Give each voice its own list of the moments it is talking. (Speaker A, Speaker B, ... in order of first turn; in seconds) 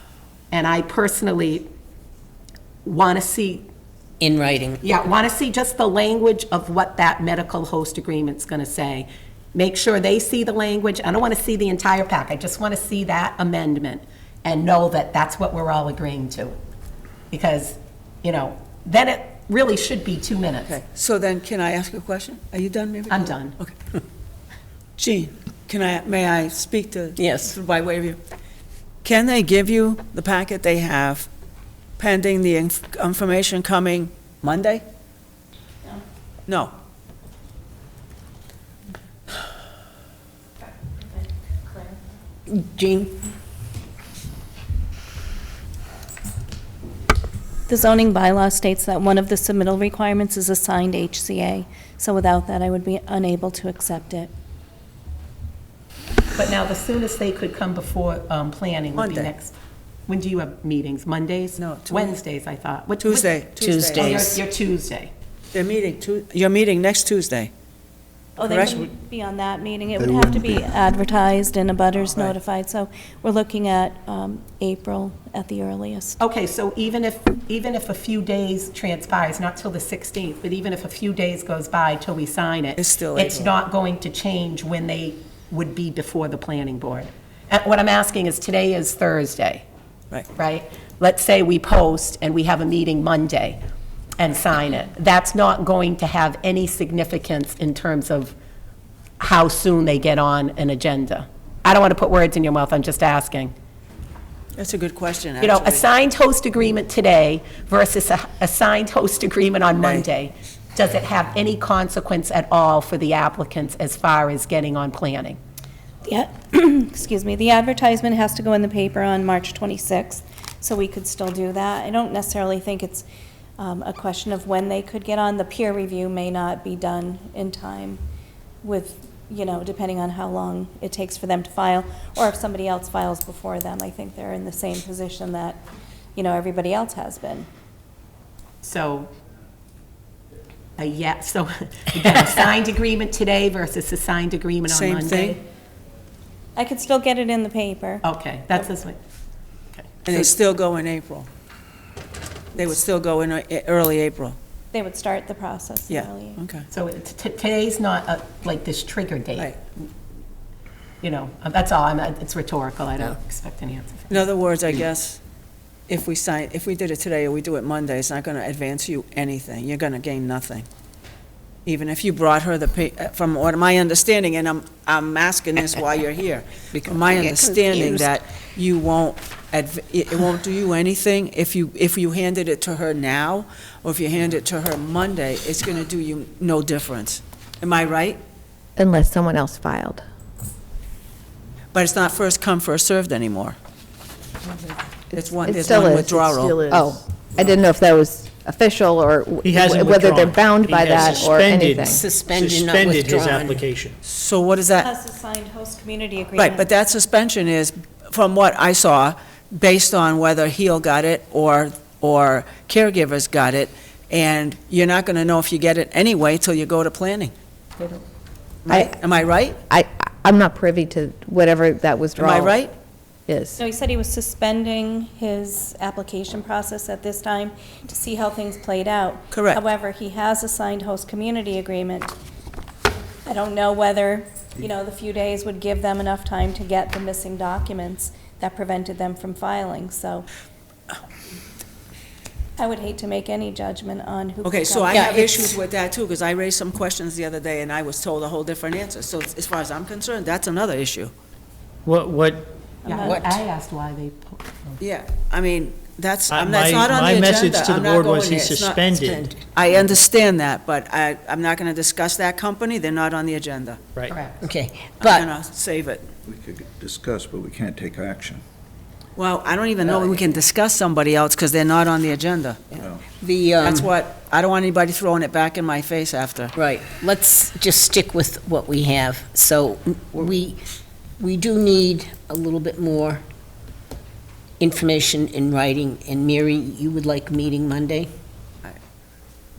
Speaker A: 0.5-1.7, 2.8-3.7, 4.8-16.6, 17.3-20.8, 23.1-23.6, 56.4-59.5, 60.1-63.4, 63.9-65.1, 76.2-89.6, 90.3-93.6, 94.2-98.3, 99.2-103.5, 105.4-115.4, 138.6-139.1, 140.8-145.4, 148.0-149.0, 149.7-150.3, 156.7-159.5, 161.0-164.2, 252.8-254.8, 264.1-264.4
Speaker B: 4.2-4.8, 27.1-27.6, 42.5-43.2, 63.6-64.4, 176.8-178.0, 200.9-203.7, 244.9-245.4, 253.1-253.3, 258.9-259.3, 264.4-265.3, 269.8-270.2, 273.2-273.9, 276.6-280.6, 281.2-283.2, 284.6-288.1
Speaker C: 20.7-23.7, 25.0-28.2, 29.0-31.3, 32.0-34.8, 36.5-36.7, 59.0-59.3, 61.6-62.1, 63.0-64.3, 65.5-67.5, 68.4-68.9, 72.1-72.4, 82.8-83.5, 104.5-105.9, 109.8-110.0, 144.7-145.4, 150.1-151.3, 152.6-154.3, 155.9-156.7, 164.1-165.2, 165.9-170.7, 171.7-188.2, 191.7-193.6, 195.1-196.9, 204.0-204.9, 206.4-217.3, 218.6-219.6, 222.2-222.7, 229.3-229.6, 244.4-251.1, 254.8-263.8, 265.0-266.1, 269.1-272.7, 273.6-276.5
Speaker D: 41.7-42.0, 47.7-54.3, 68.4-76.2, 116.0-123.0, 123.6-128.0, 128.6-135.6, 136.2-137.5, 146.6-148.0, 154.7-156.4, 204.8-206.7, 223.6-232.1, 233.2-240.3, 242.6-245.0, 252.8-253.3
Speaker E: 70.1-70.5, 266.2-268.4, 272.8-273.1
Speaker F: 188.8-190.0, 195.3-202.0, 218.7-218.9, 219.7-222.6, 223.3-223.6
Speaker G: 199.4-204.0, 251.8-252.5, 256.3-259.2